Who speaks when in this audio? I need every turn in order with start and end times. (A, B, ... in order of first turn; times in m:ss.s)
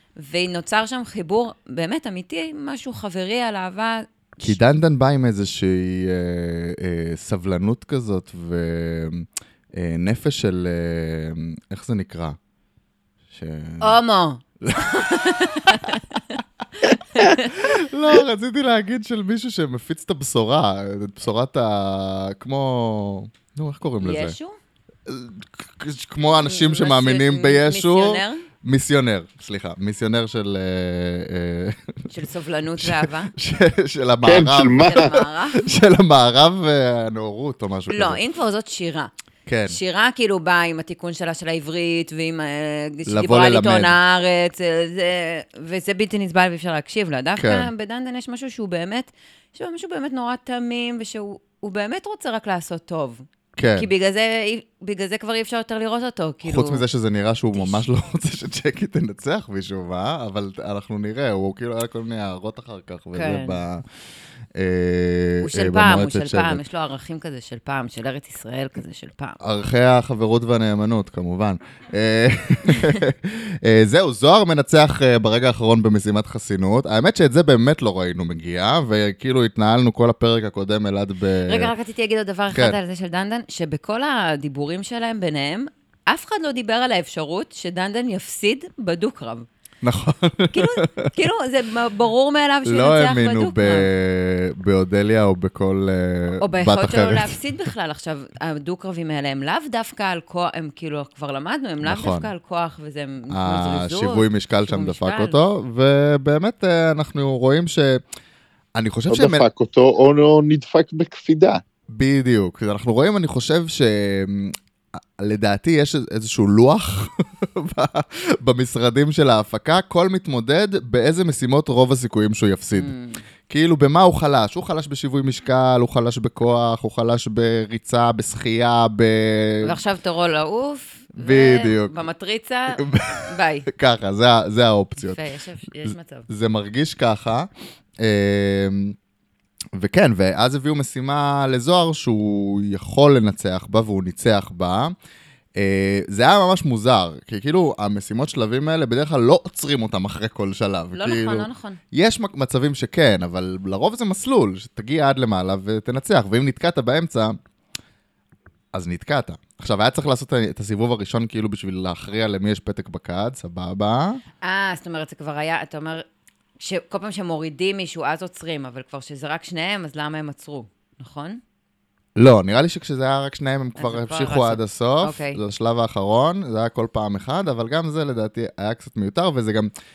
0:00.2-0:04.6 A
0:04.4-0:12.4 B
0:13.3-0:14.0 B
0:13.8-0:17.6 A
0:14.6-0:16.0 B
0:16.8-0:24.3 B
0:24.0-0:24.6 A
0:25.1-0:32.1 B
0:26.2-0:28.4 A
0:32.1-0:33.3 A
0:32.8-0:38.2 B
0:34.2-0:35.2 C
0:34.8-0:35.7 A
0:37.9-0:39.1 A
0:39.4-0:39.8 B
0:39.7-0:56.8 A
0:43.1-0:44.0 B
0:47.4-0:47.7 B
0:53.6-0:53.9 B
0:56.4-1:03.8 B
0:57.5-0:57.8 A
1:03.1-1:03.6 A
1:04.5-1:06.6 B
1:05.4-1:09.4 A
1:09.4-1:21.7 B
1:21.5-1:29.5 A
1:22.5-1:22.8 B
1:29.8-1:31.1 B
1:30.5-1:33.9 A
1:32.6-1:37.4 B
1:36.4-1:45.4 A
1:41.8-1:42.3 B
1:43.3-1:48.0 B
1:48.7-1:49.5 B
1:49.1-1:51.6 C
1:51.9-1:54.5 B
1:55.2-2:02.9 B
2:02.7-2:03.2 A
2:03.5-2:09.8 B
2:09.6-2:13.7 A
2:11.2-2:12.0 B
2:12.7-2:15.2 B
2:15.0-2:16.3 A
2:15.8-2:17.5 B
2:18.0-2:18.9 B
2:19.7-2:24.9 B
2:25.6-2:37.4 B
2:30.9-2:31.8 A
2:38.7-2:44.2 B
2:44.4-2:46.0 A
2:46.6-2:51.4 A
2:52.2-2:59.7 B
2:53.8-2:55.4 A